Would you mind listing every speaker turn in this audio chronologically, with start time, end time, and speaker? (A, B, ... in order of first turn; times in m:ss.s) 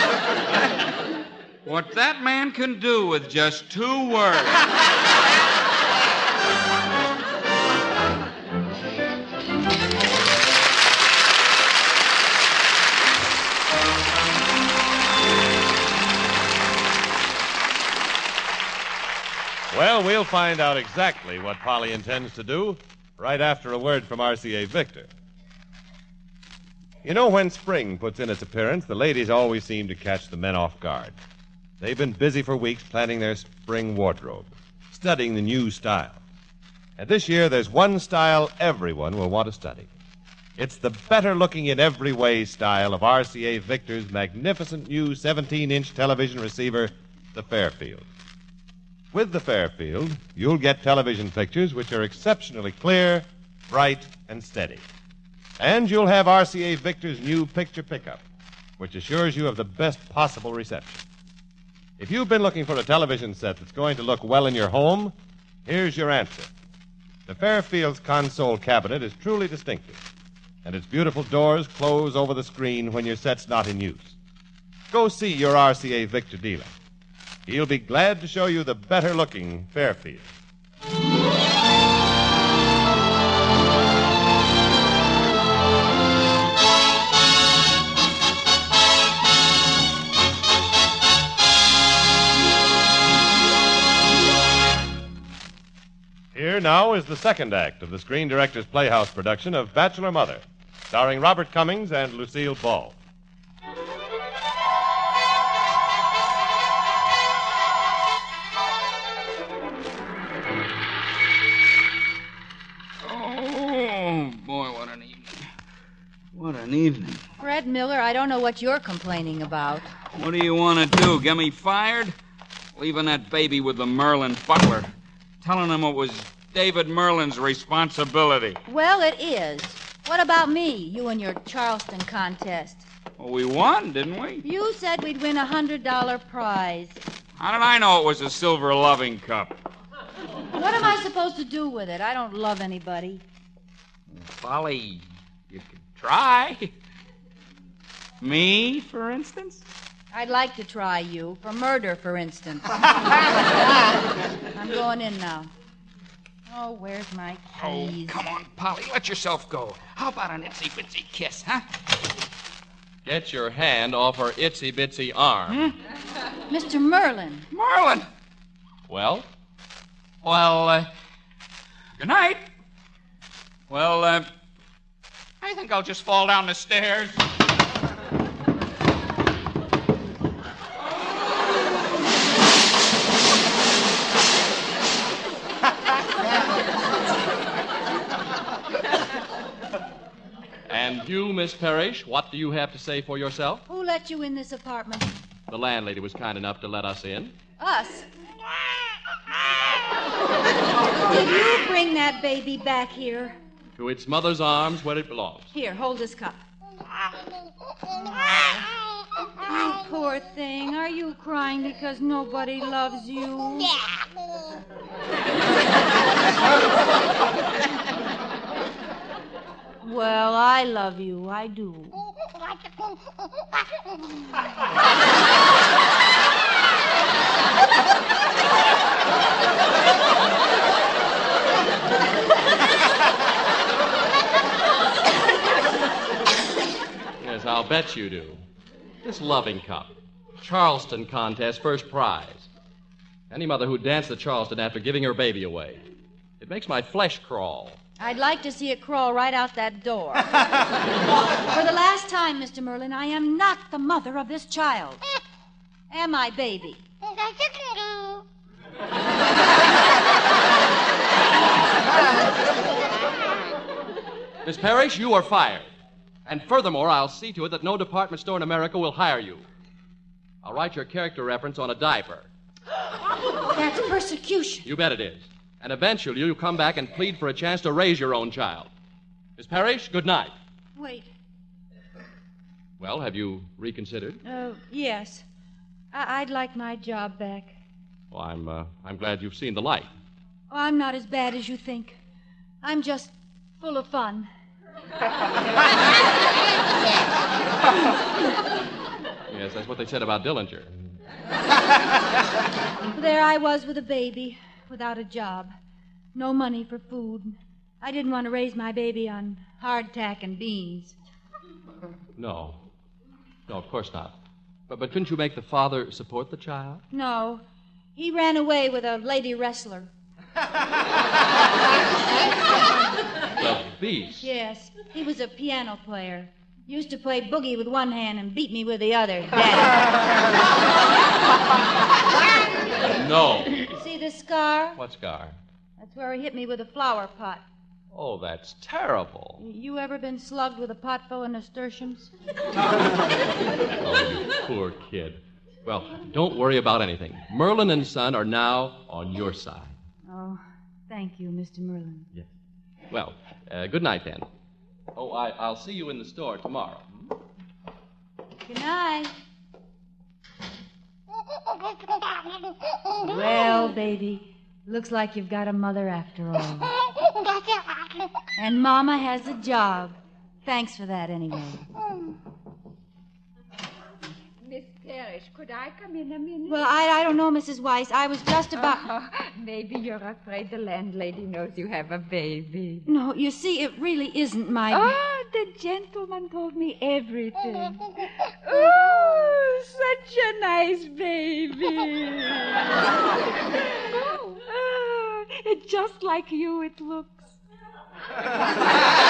0:01.6-0:04.6 A
0:19.7-0:25.1 B
0:27.0-0:31.2 B
0:31.8-0:36.2 B
0:37.0-0:39.9 B
0:40.6-0:48.1 B
0:49.1-0:54.8 B
0:55.6-0:58.2 B
0:58.8-1:01.0 B
1:02.0-1:05.1 B
1:05.6-1:06.5 B
1:07.3-1:10.0 B
1:10.6-1:14.2 B
1:14.9-1:16.7 B
1:17.5-1:20.3 B
1:36.3-1:43.0 B
1:53.0-1:55.4 A
1:56.4-1:57.2 A
1:57.4-1:59.9 C
2:00.2-2:02.1 A
2:02.8-2:04.9 A
2:05.4-2:08.6 A
2:08.7-2:12.9 C
2:13.2-2:14.4 A
2:14.4-2:17.0 C
2:17.4-2:19.6 A
2:20.5-2:23.2 C
2:24.1-2:26.7 A
2:28.2-2:29.6 A
2:30.1-2:32.7 C
2:34.5-2:35.5 C
2:36.5-2:38.2 C
2:37.6-2:41.6 A
2:43.0-2:45.7 D
2:46.5-2:47.5 C
2:47.5-2:48.1 A
2:48.9-2:49.3 D
2:50.2-2:50.9 A
2:52.0-2:52.4 A
2:53.7-2:54.3 A
2:55.4-2:57.2 A
3:10.7-3:13.6 D
3:13.7-3:15.2 C
3:15.5-3:17.3 D
3:17.6-3:18.1 C
3:21.1-3:23.4 C
3:23.8-3:25.5 D
3:25.5-3:26.4 C
3:27.9-3:28.7 C
3:29.4-3:33.7 C
3:39.8-3:42.0 C
3:57.2-3:58.4 D
3:59.0-4:02.5 D
4:03.3-4:05.8 D
4:06.4-4:07.8 D
4:08.0-4:10.3 C
4:11.5-4:15.0 C
4:15.9-4:16.8 C
4:24.4-4:25.7 D
4:26.3-4:29.5 D
4:30.4-4:32.3 D
4:33.5-4:34.7 C
4:34.6-4:38.7 D
4:39.4-4:40.3 D
4:40.8-4:41.1 C
4:42.8-4:44.2 D
4:44.2-4:45.2 C
4:45.9-4:47.6 C
4:48.1-4:49.9 D
4:50.5-4:52.0 C
4:52.6-4:54.3 C
4:59.3-5:00.8 D
5:03.0-5:05.5 C
5:06.2-5:11.0 C
5:12.2-5:12.6 D
5:13.5-5:16.8 D
5:16.9-5:17.4 C
5:18.0-5:19.9 C
5:23.4-5:24.3 D
5:24.2-5:29.9 C
5:32.9-5:33.7 D
5:33.8-5:34.8 C
5:34.8-5:35.4 D
5:35.8-5:37.4 C
5:37.9-5:39.4 D
5:39.4-5:42.1 C
5:43.8-5:49.8 D
5:50.1-5:52.1 C
5:52.9-5:54.3 D
5:55.0-5:57.1 D
5:58.5-5:59.1 C
6:03.0-6:06.7 C
6:08.4-6:11.6 C
6:14.4-6:16.7 E
6:16.5-6:18.9 C
6:18.6-6:22.8 E
6:22.9-6:25.0 C
6:24.7-6:27.8 E
6:28.5-6:32.8 E
6:33.8-6:37.4 E